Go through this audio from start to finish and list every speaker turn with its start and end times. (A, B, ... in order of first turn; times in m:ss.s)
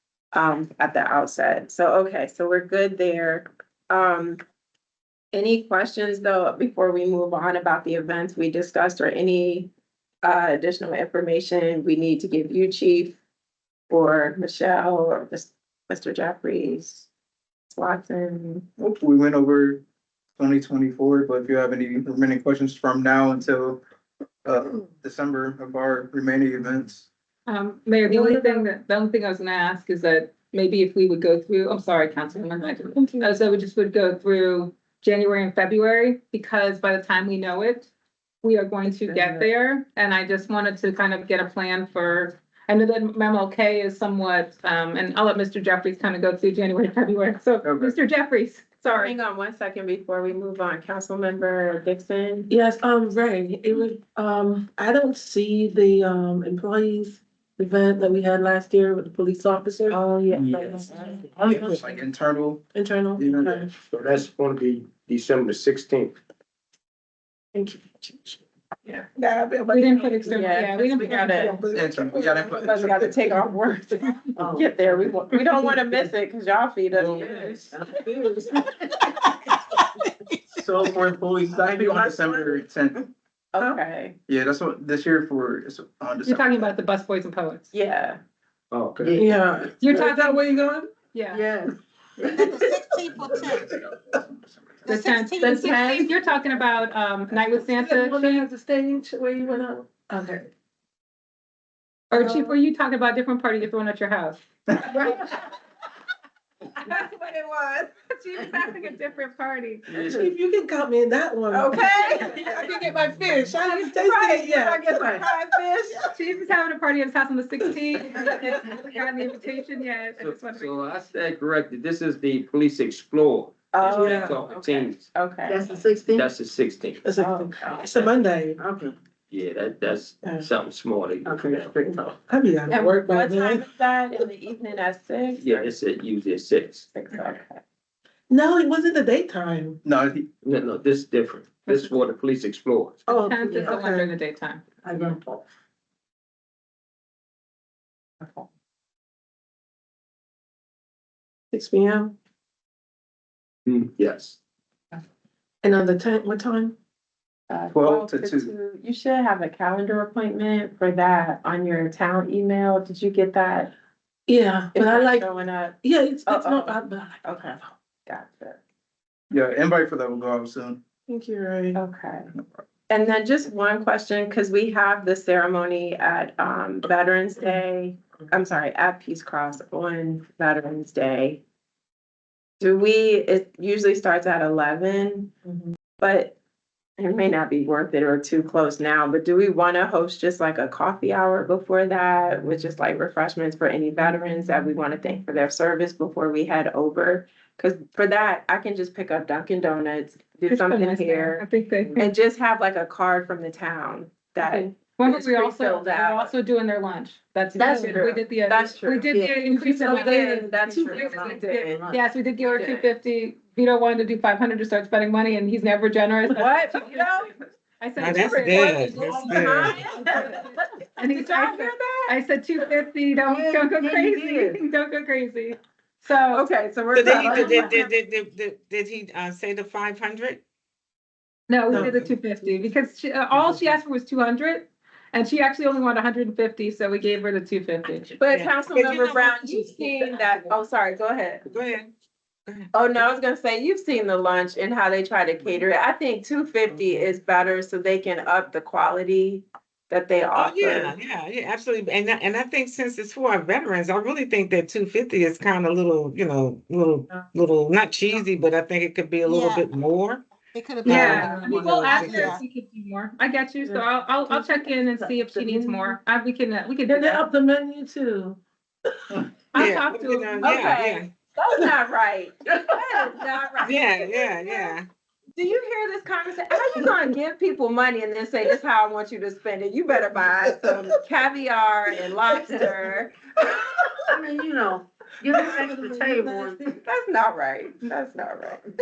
0:00.3-0:04.4 A
0:05.3-0:09.7 A
0:10.2-0:13.2 A
0:13.9-0:17.1 A
0:17.7-0:18.6 A
0:18.8-0:19.8 B
0:20.4-0:23.8 B
0:24.4-0:27.1 B
0:27.5-0:37.9 C
0:28.0-0:28.7 D
0:32.6-0:33.4 D
0:38.4-0:49.2 C
0:38.8-0:39.5 A
0:47.6-0:47.9 B
0:48.8-0:52.5 A
0:52.5-1:00.0 D
0:59.9-1:01.2 A
1:00.3-1:02.6 B
1:00.6-1:01.9 D
1:02.7-1:03.7 D
1:03.1-1:03.6 B
1:03.9-1:06.2 E
1:07.5-1:13.5 D
1:09.7-1:11.6 C
1:10.3-1:11.6 A
1:11.7-1:13.2 B
1:12.5-1:17.6 A
1:14.4-1:15.1 F
1:15.5-1:15.8 C
1:16.9-1:17.7 B
1:17.2-1:18.7 F
1:20.5-1:23.0 B
1:21.6-1:22.5 F
1:23.5-1:24.2 A
1:24.3-1:26.7 B
1:26.2-1:27.7 C
1:27.7-1:28.2 A
1:28.7-1:29.2 E
1:29.1-1:30.9 D
1:29.8-1:30.5 C
1:31.1-1:31.4 C
1:32.4-1:33.6 F
1:33.2-1:33.6 C
1:34.8-1:38.4 C
1:34.9-1:35.5 F
1:35.4-1:36.1 A
1:37.3-1:40.5 D
1:42.1-1:44.4 C
1:42.1-1:42.6 D
1:45.0-1:45.3 A
1:45.0-1:45.2 C
1:46.8-1:47.9 A
1:48.0-1:50.0 C
1:49.9-1:50.2 E
1:50.0-1:52.6 D
1:51.5-1:52.7 A
1:52.3-1:53.9 C
1:53.3-1:55.2 D
1:53.7-1:56.1 A
1:56.1-2:00.8 C
2:00.2-2:05.0 E
2:03.7-2:05.8 A
2:03.8-2:04.4 D
2:05.5-2:06.3 F
2:06.1-2:07.0 E
2:07.0-2:08.6 D
2:07.2-2:08.1 A
2:08.6-2:08.9 F
2:09.3-2:11.7 E
2:10.2-2:10.5 D
2:11.3-2:12.0 F
2:11.5-2:13.6 D
2:12.7-2:15.7 A
2:15.4-2:16.8 E
2:16.9-2:17.6 A
2:18.3-2:19.8 D
2:19.8-2:20.3 B
2:20.4-2:23.0 E
2:21.6-2:22.0 C
2:23.0-2:24.1 D
2:23.2-2:24.7 C
2:23.5-2:23.8 F
2:24.8-2:25.4 F
2:31.5-2:32.1 D
2:33.7-2:34.4 E
2:35.6-2:36.8 D
2:37.5-2:43.7 A
2:37.7-2:38.5 B
2:44.3-2:45.3 D
2:44.7-2:48.6 A
2:45.8-2:47.6 D
2:49.3-2:50.8 B
2:51.1-2:51.8 D
2:51.7-2:52.3 A
2:52.9-3:01.4 A
3:02.6-3:05.3 A
3:06.0-3:06.4 A
3:07.0-3:21.4 A
3:20.5-3:22.1 C
3:22.0-3:26.3 A
3:24.5-3:37.1 C
3:27.6-3:28.1 F
3:27.6-3:31.9 A
3:29.0-3:30.2 F
3:30.1-3:30.9 D
3:30.9-3:32.0 F
3:32.5-3:32.9 A
3:36.3-3:37.3 A
3:37.8-3:46.5 C
3:38.0-3:39.9 G
3:38.0-3:42.2 A
3:43.2-3:44.6 F
3:46.3-3:47.8 A
3:46.9-3:50.4 G
3:47.2-3:47.8 D
3:51.5-3:58.4 C
3:51.7-3:52.1 D
3:53.3-3:53.8 D
3:58.2-4:01.4 A
3:58.3-3:59.3 G
3:59.3-4:00.6 C
4:01.5-4:01.9 G
4:02.7-4:10.9 A
4:10.3-4:20.2 G
4:19.3-4:19.6 F
4:20.5-4:22.3 F
4:20.6-4:27.2 C
4:20.8-4:22.4 G
4:21.9-4:22.3 D
4:23.6-4:26.0 D
4:26.9-4:28.4 D
4:29.5-4:30.5 C
4:29.6-4:31.1 G
4:30.4-4:34.7 A
4:33.6-4:34.9 G
4:35.4-4:43.1 A
4:44.1-4:46.7 F
4:45.7-4:46.6 D
4:46.8-4:48.6 A